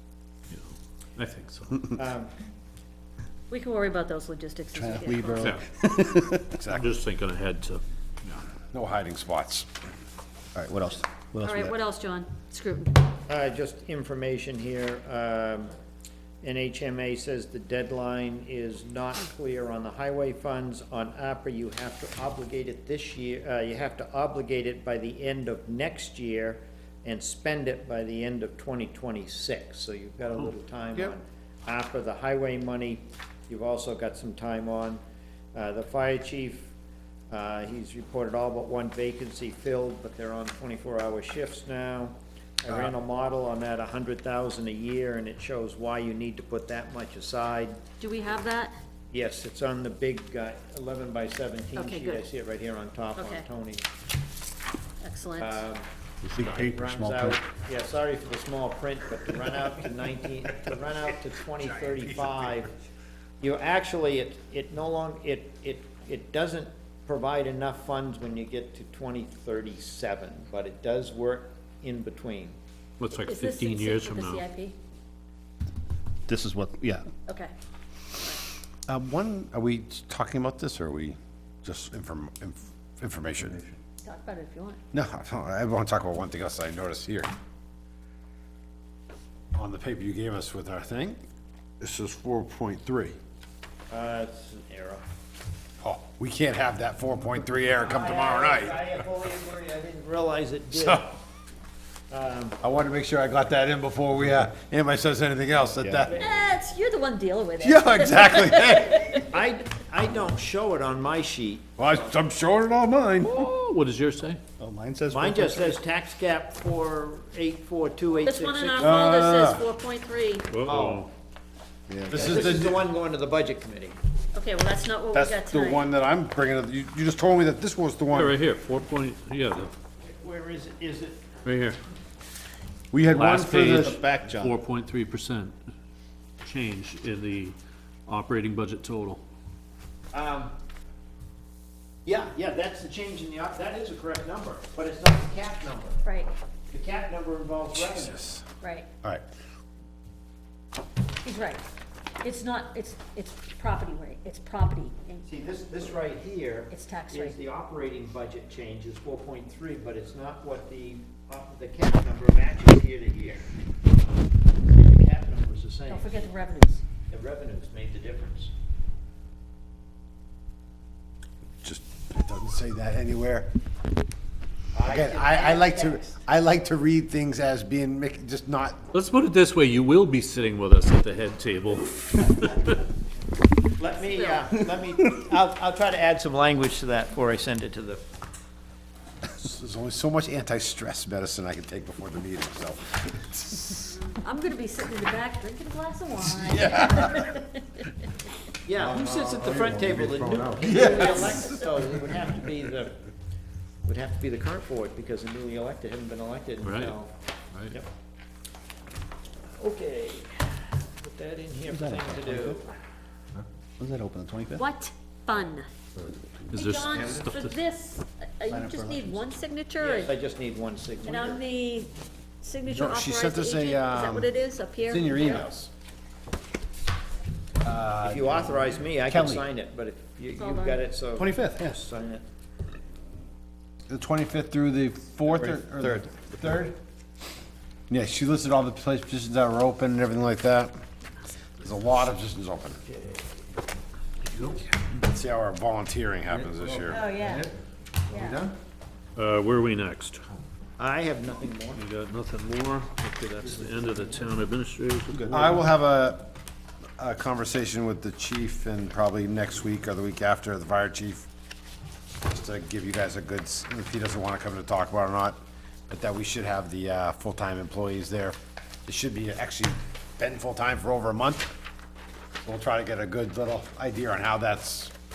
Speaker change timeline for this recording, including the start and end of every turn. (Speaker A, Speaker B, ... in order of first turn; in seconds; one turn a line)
Speaker A: 0.5-1.9
Speaker B: 1.9-2.3
Speaker C: 3.5-5.6
Speaker D: 4.8-6.5
Speaker E: 6.5-6.9
Speaker A: 6.7-8.4
Speaker E: 8.7-9.7
Speaker D: 10.5-11.7
Speaker C: 11.4-13.0
Speaker B: 13.3-15.7
Speaker B: 16.4-35.0
Speaker B: 35.5-36.7
Speaker B: 37.3-47.8
Speaker C: 48.0-48.8
Speaker B: 49.1-53.8
Speaker C: 51.8-52.2
Speaker C: 53.2-53.4
Speaker C: 55.0-55.6
Speaker B: 55.4-55.9
Speaker D: 56.2-57.4
Speaker B: 56.4-62.7
Speaker B: 63.4-72.5
Speaker A: 73.0-74.4
Speaker C: 73.1-74.8
Speaker D: 76.3-77.1
Speaker C: 77.2-77.5
Speaker C: 78.1-78.4
Speaker E: 78.9-83.6
Speaker C: 84.0-84.8
Speaker E: 84.9-87.3
Speaker E: 89.5-91.2
Speaker E: 91.8-93.2
Speaker B: 93.9-95.0
Speaker E: 95.8-98.9
Speaker B: 97.8-101.1
Speaker E: 100.7-101.1
Speaker B: 102.1-102.6
Speaker E: 102.6-106.2
Speaker B: 106.1-106.3
Speaker C: 106.1-109.2
Speaker E: 107.6-109.2
Speaker B: 109.3-112.0
Speaker E: 111.8-113.5
Speaker A: 113.2-114.4
Speaker D: 114.6-115.8
Speaker B: 115.1-119.0
Speaker C: 118.2-120.5
Speaker E: 118.8-119.7
Speaker A: 120.5-121.1
Speaker B: 120.6-121.1
Speaker E: 121.9-122.8
Speaker B: 122.1-124.0
Speaker C: 124.3-125.8
Speaker E: 125.1-128.3
Speaker A: 128.1-129.7
Speaker B: 130.0-131.2
Speaker A: 131.4-131.8
Speaker E: 132.9-134.0
Speaker A: 133.1-135.6
Speaker D: 133.8-134.5
Speaker A: 136.4-137.6
Speaker A: 138.1-139.2
Speaker B: 140.1-140.5
Speaker B: 142.1-146.0
Speaker C: 146.0-146.3
Speaker B: 146.7-148.2
Speaker E: 147.7-148.4
Speaker C: 148.6-148.9
Speaker C: 151.2-151.6
Speaker C: 152.2-155.2
Speaker B: 155.2-163.4
Speaker C: 156.7-157.4
Speaker B: 164.6-166.3
Speaker C: 165.9-166.8
Speaker B: 167.1-168.5
Speaker E: 171.6-173.5
Speaker B: 174.7-176.0
Speaker E: 174.8-178.8
Speaker A: 178.9-182.8
Speaker B: 183.8-188.0
Speaker C: 184.0-184.5
Speaker E: 189.3-193.9
Speaker C: 194.0-197.8
Speaker E: 196.3-197.2
Speaker B: 198.6-203.1
Speaker E: 198.8-201.5
Speaker C: 200.7-201.4
Speaker B: 203.8-207.1
Speaker A: 206.6-207.0
Speaker B: 209.6-212.7
Speaker D: 211.7-212.6
Speaker D: 213.8-214.6
Speaker C: 214.5-215.7
Speaker A: 216.5-217.5
Speaker C: 216.5-220.1
Speaker D: 218.5-219.2
Speaker B: 219.8-221.4
Speaker C: 221.0-225.5
Speaker E: 222.7-224.3
Speaker E: 224.8-225.7
Speaker E: 227.6-229.4
Speaker B: 228.0-232.2
Speaker C: 230.4-230.8
Speaker D: 231.2-231.8
Speaker E: 233.9-236.7
Speaker B: 235.3-236.6
Speaker E: 237.9-240.7
Speaker E: 241.6-242.8
Speaker E: 244.8-247.1
Speaker C: 246.9-247.5
Speaker C: 248.1-248.4
Speaker A: 249.2-250.2
Speaker B: 250.8-251.8
Speaker A: 251.8-255.6
Speaker E: 255.2-256.3
Speaker E: 257.0-261.2
Speaker E: 262.2-271.5
Speaker E: 272.4-274.9